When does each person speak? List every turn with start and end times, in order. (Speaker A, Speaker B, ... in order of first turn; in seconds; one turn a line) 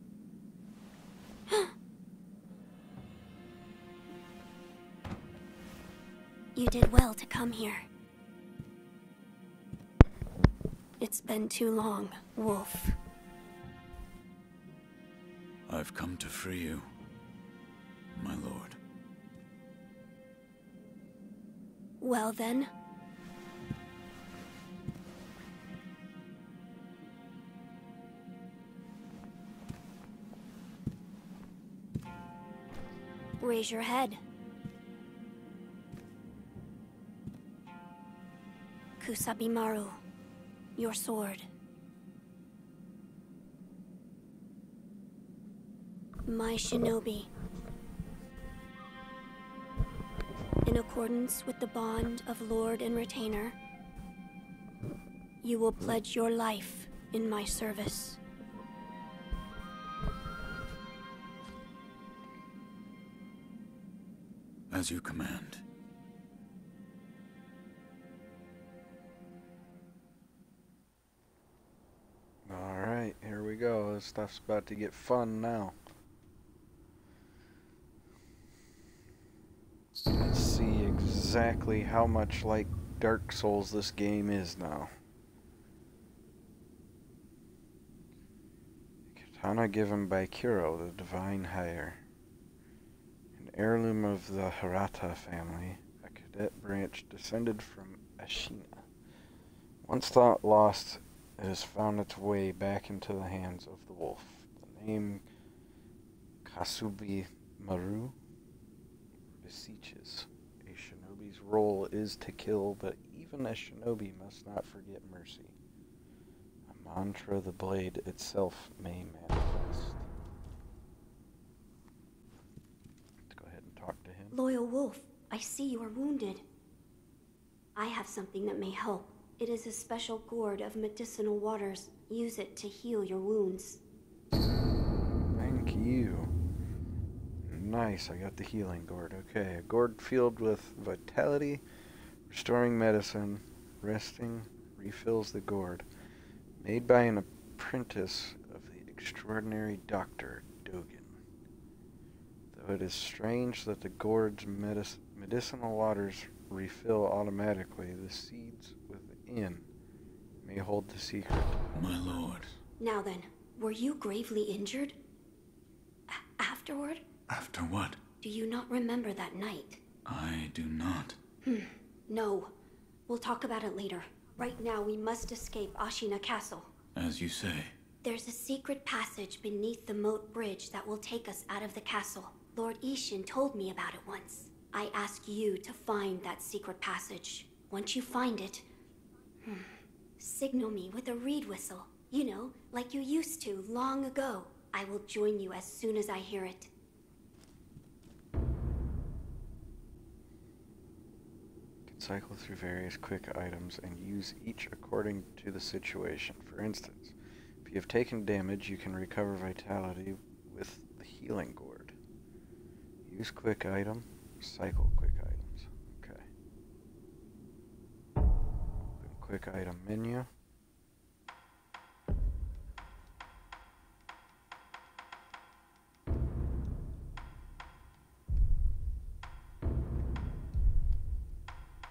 Speaker A: 6.5-7.9
Speaker A: 11.0-13.0
Speaker B: 15.7-16.9
Speaker B: 18.2-18.8
Speaker A: 22.0-22.7
Speaker A: 33.4-34.2
Speaker A: 39.0-40.0
Speaker A: 40.8-41.5
Speaker A: 46.3-47.3
Speaker A: 50.6-53.5
Speaker A: 55.4-58.2
Speaker B: 64.7-65.6
Speaker C: 72.5-75.8
Speaker C: 80.1-84.9
Speaker C: 89.1-92.0
Speaker C: 93.4-98.8
Speaker C: 99.8-105.2
Speaker C: 106.5-108.2
Speaker C: 109.4-115.6
Speaker C: 116.7-120.1
Speaker C: 123.3-124.4
Speaker A: 124.3-126.5
Speaker A: 127.8-133.8
Speaker C: 135.3-136.3
Speaker C: 137.4-141.6
Speaker C: 142.3-145.9
Speaker C: 146.6-151.2
Speaker C: 152.5-159.7
Speaker C: 160.4-162.2
Speaker B: 161.8-162.6
Speaker A: 162.8-165.0
Speaker A: 166.1-167.0
Speaker B: 167.3-168.0
Speaker A: 168.2-169.8
Speaker B: 170.1-171.2
Speaker A: 171.4-172.5
Speaker A: 173.1-176.7
Speaker B: 177.0-177.7
Speaker A: 178.0-188.7
Speaker A: 189.4-196.7
Speaker C: 201.9-211.9
Speaker C: 213.1-216.3
Speaker C: 219.0-220.3